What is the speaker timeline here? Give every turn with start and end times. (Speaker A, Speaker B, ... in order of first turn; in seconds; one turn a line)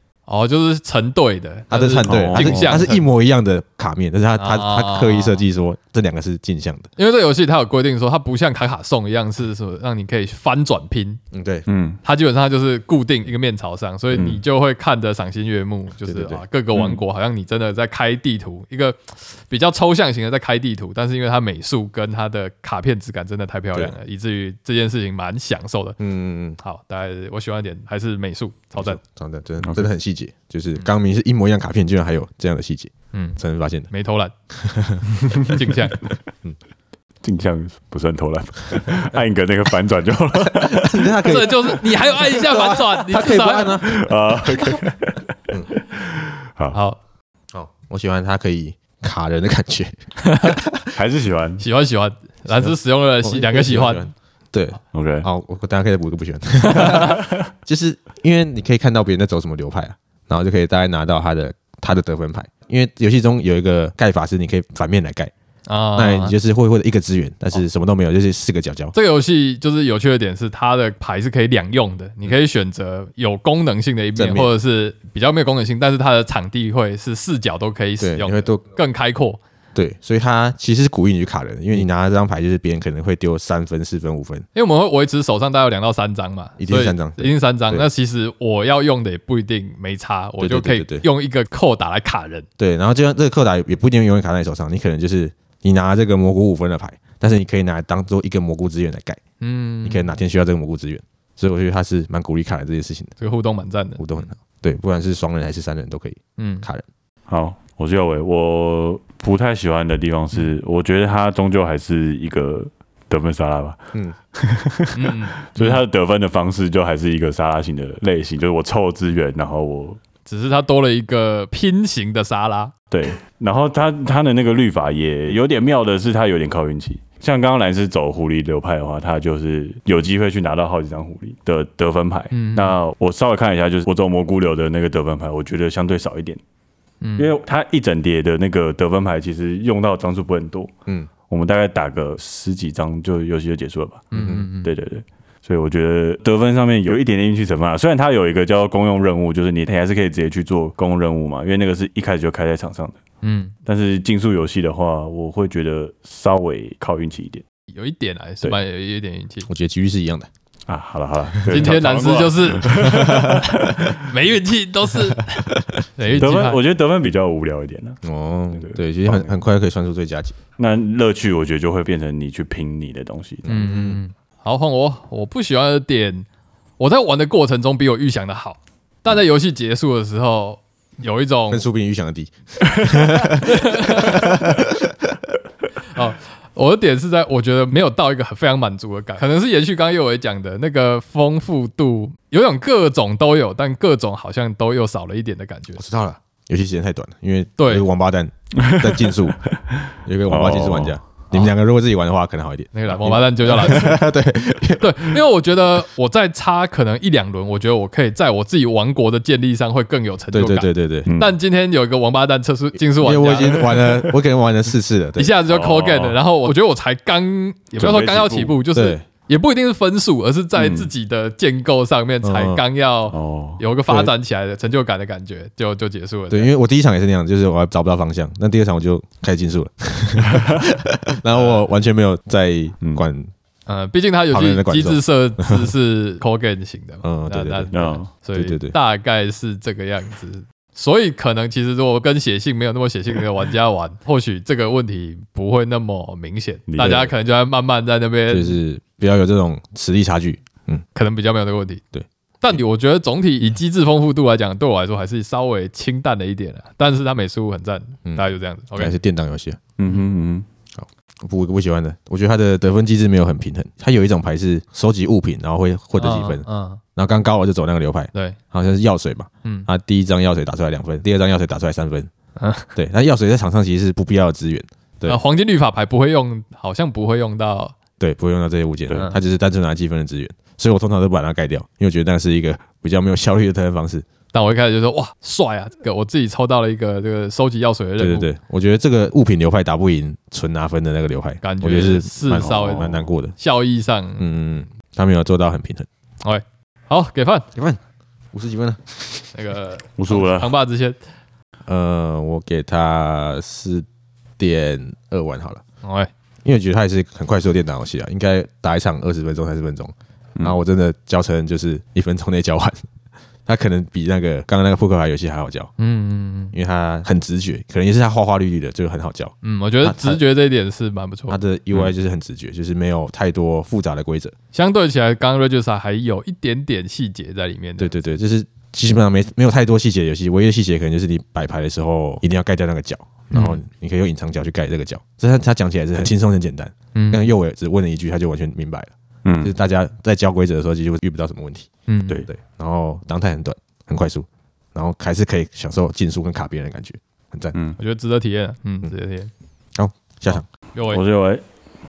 Speaker A: 0.3-3.0
Speaker B: 1.7-6.9
Speaker C: 2.0-2.8
Speaker A: 4.4-5.4
Speaker A: 7.0-11.2
Speaker B: 11.3-11.7
Speaker C: 11.7-12.0
Speaker A: 12.0-26.0
Speaker C: 14.1-14.4
Speaker B: 16.0-16.4
Speaker C: 16.7-17.0
Speaker B: 26.0-26.6
Speaker A: 26.6-29.0
Speaker B: 28.7-33.9
Speaker C: 29.6-29.9
Speaker A: 33.1-33.4
Speaker A: 33.9-34.3
Speaker B: 34.6-35.0
Speaker A: 35.4-36.0
Speaker C: 37.2-41.4
Speaker B: 40.6-44.1
Speaker A: 41.2-43.8
Speaker C: 43.8-46.8
Speaker A: 46.7-47.0
Speaker B: 47.5-50.9
Speaker A: 50.2-50.6
Speaker C: 50.9-51.6
Speaker A: 51.6-54.1
Speaker B: 52.5-65.3
Speaker C: 54.9-55.3
Speaker A: 56.7-57.2
Speaker A: 65.7-66.3
Speaker B: 66.0-68.9
Speaker A: 68.9-79.4
Speaker B: 74.2-74.5
Speaker B: 78.0-78.6
Speaker B: 79.7-84.4
Speaker A: 84.5-92.5
Speaker B: 86.6-87.9
Speaker B: 90.4-91.0
Speaker B: 92.6-99.2
Speaker A: 99.4-100.1
Speaker B: 99.8-103.1
Speaker A: 103.2-104.0
Speaker B: 104.0-106.8
Speaker A: 106.4-106.7
Speaker C: 107.3-113.8
Speaker C: 114.3-120.0
Speaker A: 114.9-115.8
Speaker A: 120.2-122.7
Speaker C: 122.9-136.4
Speaker A: 132.3-132.8
Speaker A: 137.0-137.3
Speaker C: 137.2-140.7
Speaker C: 141.3-153.0
Speaker A: 144.1-144.7
Speaker B: 144.2-144.5
Speaker A: 153.2-153.5
Speaker C: 153.7-157.4
Speaker A: 157.7-159.5
Speaker B: 159.5-160.3
Speaker C: 160.7-164.1
Speaker B: 161.3-161.6
Speaker A: 161.5-162.7
Speaker B: 162.8-163.4
Speaker A: 163.9-166.6
Speaker B: 166.0-166.2
Speaker C: 166.1-168.0
Speaker B: 168.0-170.3
Speaker C: 168.5-169.3
Speaker C: 170.6-173.4
Speaker B: 173.4-174.0
Speaker A: 173.5-176.2
Speaker A: 176.8-181.7
Speaker B: 181.5-184.9
Speaker A: 183.5-184.4
Speaker A: 185.9-195.8
Speaker B: 195.8-199.4
Speaker A: 197.6-197.9
Speaker C: 198.6-199.3
Speaker B: 200.1-205.2
Speaker C: 200.2-201.0
Speaker A: 202.7-204.1
Speaker A: 204.8-213.9
Speaker B: 210.3-211.1
Speaker C: 211.1-211.3
Speaker B: 213.0-215.4
Speaker A: 215.2-226.5
Speaker C: 215.5-216.2
Speaker C: 217.8-218.6
Speaker B: 218.7-219.0
Speaker C: 220.6-220.9
Speaker B: 222.2-222.6
Speaker C: 223.1-223.6
Speaker B: 223.9-224.1
Speaker B: 226.3-233.3
Speaker A: 231.3-231.6
Speaker A: 233.7-248.6
Speaker B: 234.3-235.7
Speaker B: 237.0-237.7
Speaker C: 237.7-238.1
Speaker B: 238.3-238.8
Speaker C: 246.7-247.1
Speaker B: 246.8-247.1
Speaker B: 248.3-250.8
Speaker A: 250.9-251.8
Speaker A: 252.4-258.9
Speaker B: 258.1-259.6
Speaker C: 259.8-260.4
Speaker B: 260.8-272.1
Speaker A: 266.0-266.8
Speaker A: 272.4-272.7
Speaker B: 272.8-275.2
Speaker A: 275.1-277.7
Speaker B: 278.0-284.0
Speaker A: 284.3-288.3
Speaker B: 288.0-293.3
Speaker A: 291.4-292.8
Speaker C: 292.3-293.1
Speaker A: 293.4-294.2
Speaker B: 294.2-295.9
Speaker A: 296.2-297.4
Speaker B: 297.5-297.8
Speaker B: 298.3-299.2
Speaker A: 299.3-301.0
Speaker C: 299.9-300.5
Speaker B: 301.7-303.9
Speaker B: 304.4-305.6
Speaker A: 305.8-306.1
Speaker B: 306.4-312.8
Speaker B: 313.4-315.7
Speaker A: 315.8-316.5
Speaker B: 316.5-320.2
Speaker A: 319.4-321.4
Speaker B: 321.3-324.3
Speaker A: 324.5-327.9
Speaker B: 327.8-341.7
Speaker A: 333.3-333.6
Speaker A: 336.9-337.3
Speaker C: 339.2-339.5
Speaker A: 341.9-342.2
Speaker B: 342.3-347.6
Speaker A: 347.8-349.3
Speaker B: 349.8-350.5
Speaker A: 350.7-351.0
Speaker C: 350.9-351.4